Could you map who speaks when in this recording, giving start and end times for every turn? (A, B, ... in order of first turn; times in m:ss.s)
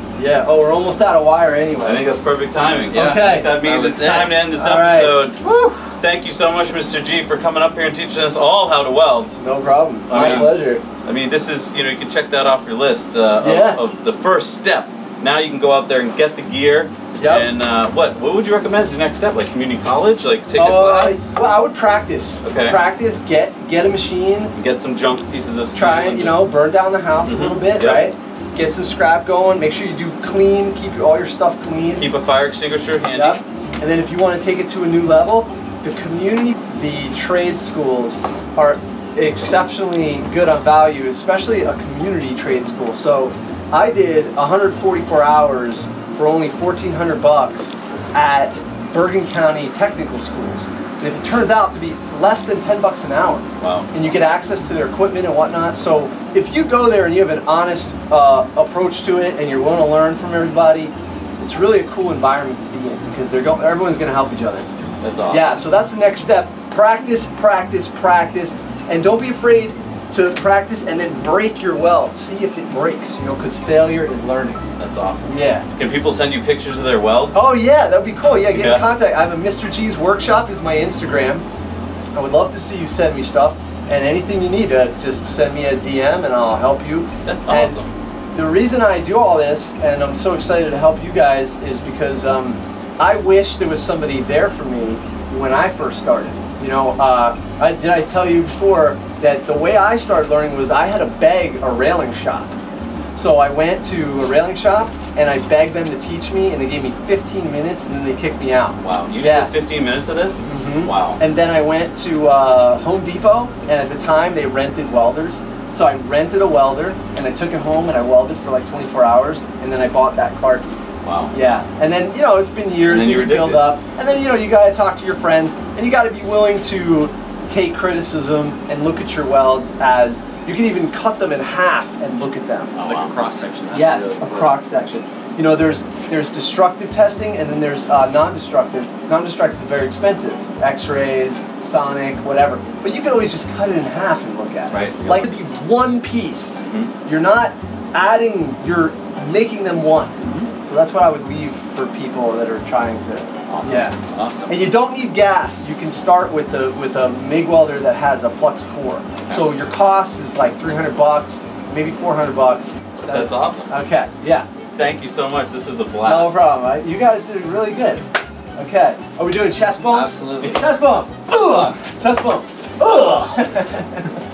0:00.2-0:02.1 A
0:01.8-0:05.4 B
0:02.9-0:04.4 C
0:02.9-0:03.6 A
0:04.5-0:05.2 A
0:06.0-0:09.3 B
0:09.4-0:10.8 A
0:10.1-0:21.4 B
0:10.1-0:10.5 C
0:13.4-0:13.8 A
0:17.2-0:17.5 A
0:20.5-0:24.5 A
0:22.4-0:22.8 B
0:24.5-0:26.5 B
0:25.7-0:32.1 A
0:27.2-0:28.1 B
0:32.0-0:33.4 B
0:33.1-1:04.7 A
0:53.6-0:53.9 B
1:05.0-1:05.5 B
1:05.3-1:14.6 A
1:14.8-1:17.5 B
1:15.3-1:15.6 A
1:17.3-1:21.4 A
1:18.5-1:18.9 B
1:22.1-1:27.8 A
1:27.2-1:27.7 C
1:27.2-1:27.9 B
1:28.3-1:42.5 A
1:43.1-1:49.5 A
1:48.8-1:51.2 B
1:50.4-2:00.7 A
2:01.0-2:01.3 B
2:01.3-2:12.7 A
2:02.8-2:03.8 B
2:12.8-2:13.2 B
2:12.8-2:14.6 C
2:13.7-2:34.0 A
2:24.7-2:25.3 B
2:30.2-2:30.5 C
2:33.5-2:34.5 B
2:33.5-2:34.5 C
2:34.5-2:44.5 A
2:43.0-2:43.7 B
2:44.8-2:46.4 B
2:46.0-2:54.2 A
2:49.9-2:50.6 C
2:51.3-2:51.7 B